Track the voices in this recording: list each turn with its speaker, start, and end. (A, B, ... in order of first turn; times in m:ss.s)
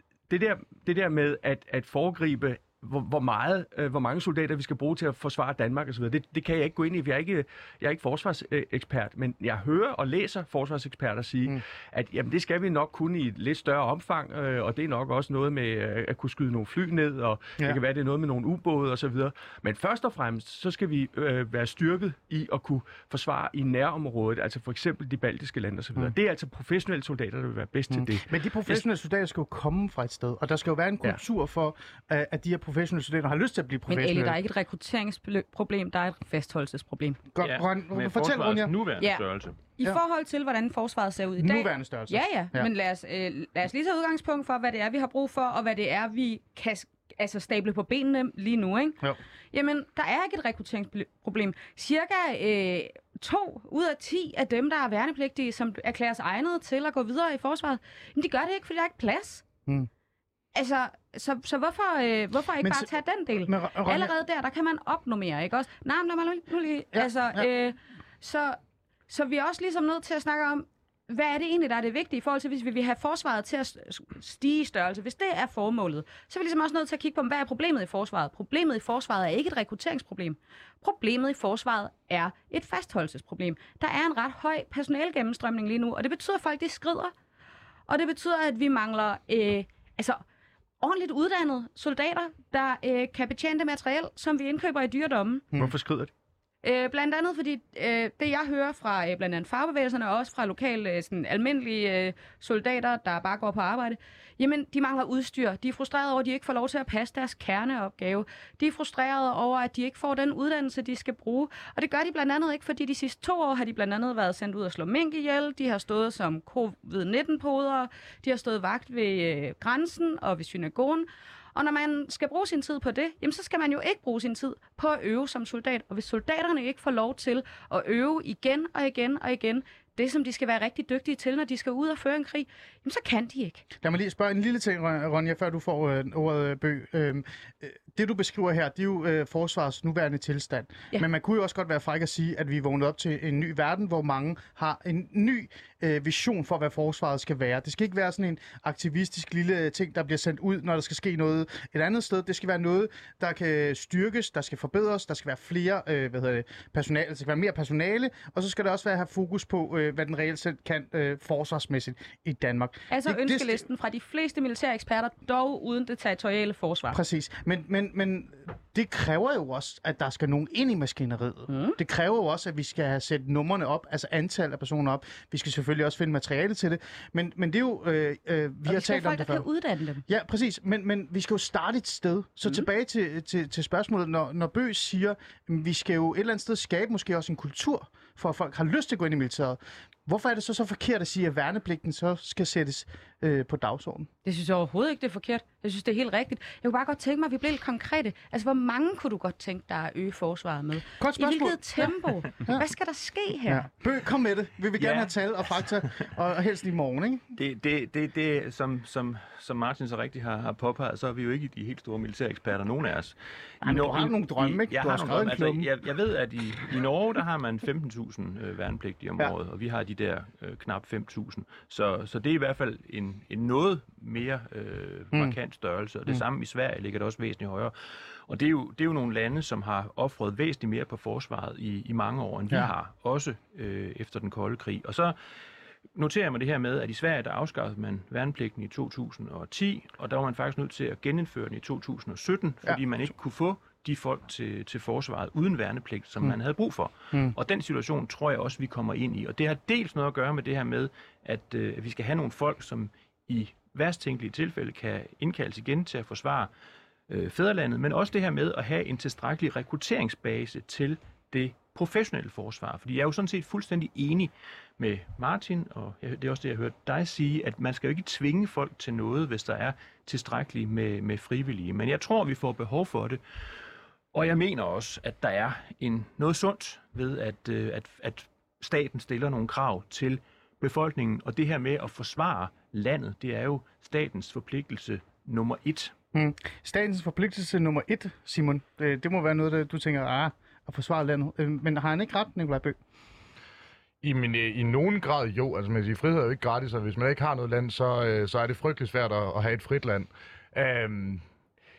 0:00.3-0:28.8 A
0:27.9-0:34.4 B
0:33.9-0:37.2 C
0:37.3-0:38.7 B
0:37.4-0:39.6 D
0:39.8-0:49.0 C
0:41.4-0:42.7 B
0:49.5-0:59.4 C
1:00.5-1:08.6 C
1:02.6-1:02.9 B
1:03.4-1:04.1 B
1:06.9-1:07.5 B
1:09.1-1:27.1 C
1:27.9-1:30.2 C
1:30.8-1:35.4 C
1:35.6-1:36.1 A
1:36.6-2:13.6 C
2:13.8-2:43.6 B
2:42.9-2:47.0 C
2:46.9-2:59.4 B
2:51.5-2:51.8 C
2:58.6-3:00.0 C
3:00.1-3:14.1 B
3:14.2-3:23.6 C
3:21.0-3:21.9 B
3:23.5-3:27.2 B
3:24.8-3:25.1 D
3:27.3-3:47.7 D
3:33.6-3:35.7 B
3:48.2-3:55.2 D
3:55.9-4:16.5 D
4:17.1-4:33.2 D
4:34.1-4:45.9 D
4:46.1-4:52.8 B
4:54.0-5:01.2 E